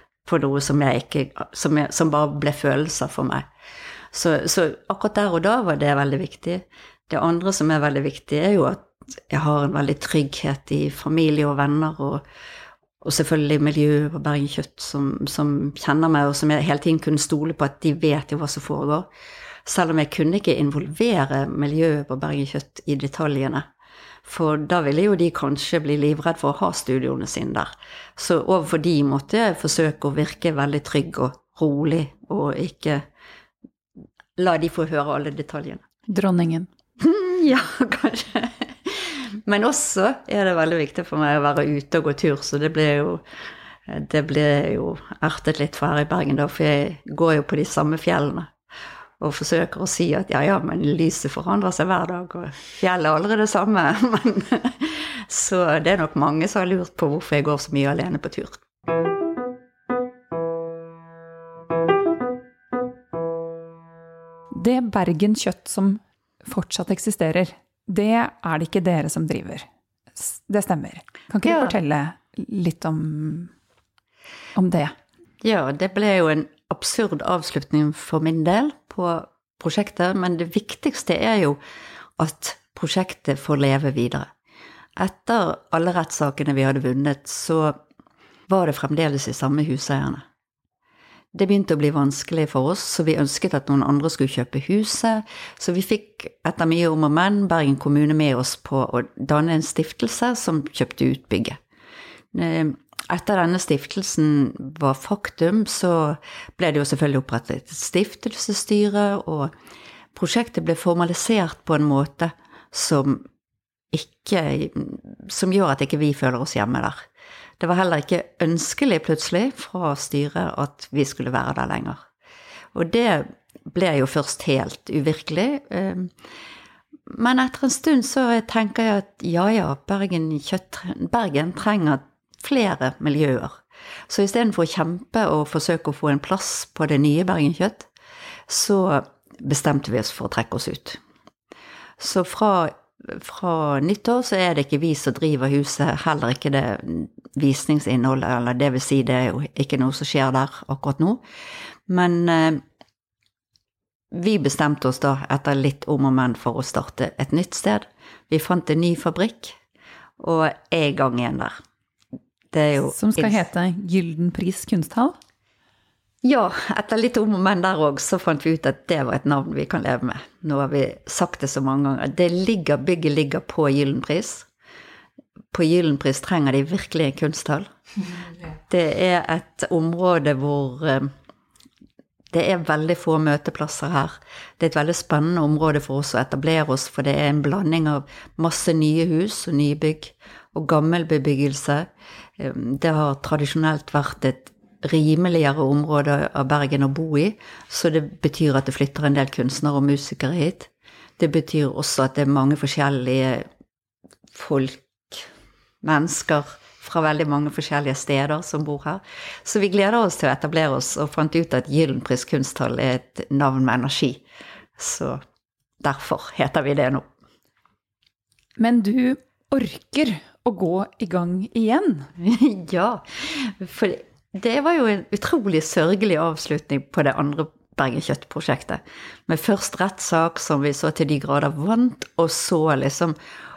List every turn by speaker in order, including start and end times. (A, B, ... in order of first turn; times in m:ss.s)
0:00.2-0:03.4 A
0:04.1-0:12.2 A
0:13.0-0:19.1 A
0:19.6-0:23.7 A
0:24.2-0:33.0 A
0:34.4-0:35.8 A
0:36.1-0:36.7 B
0:37.0-0:43.2 A
0:43.9-0:48.5 A
0:49.2-0:58.6 A
1:04.5-1:13.5 B
1:14.6-1:14.9 B
1:15.4-1:21.6 A
1:22.2-1:24.3 A
1:25.0-1:27.8 A
1:28.5-1:30.2 A
1:31.3-1:41.6 A
1:42.3-1:49.5 A
1:50.1-1:53.2 A
1:53.9-1:57.0 A
1:57.6-2:02.0 A
2:02.7-2:06.1 A
2:07.1-2:17.9 A
2:18.5-2:21.0 A
2:22.0-2:31.2 A
2:31.9-2:32.6 A
2:34.1-2:39.6 A
2:40.2-2:41.6 A
2:42.5-2:43.4 A
2:42.9-2:45.1 B
2:46.2-2:54.5 A
2:55.5-2:57.7 A
2:58.7-3:01.1 A
3:02.3-3:23.4 A
3:24.3-3:25.3 A
3:25.8-3:34.2 A
3:34.8-3:35.2 A
3:35.8-3:37.1 A
3:38.6-3:42.1 B
3:42.2-3:53.1 A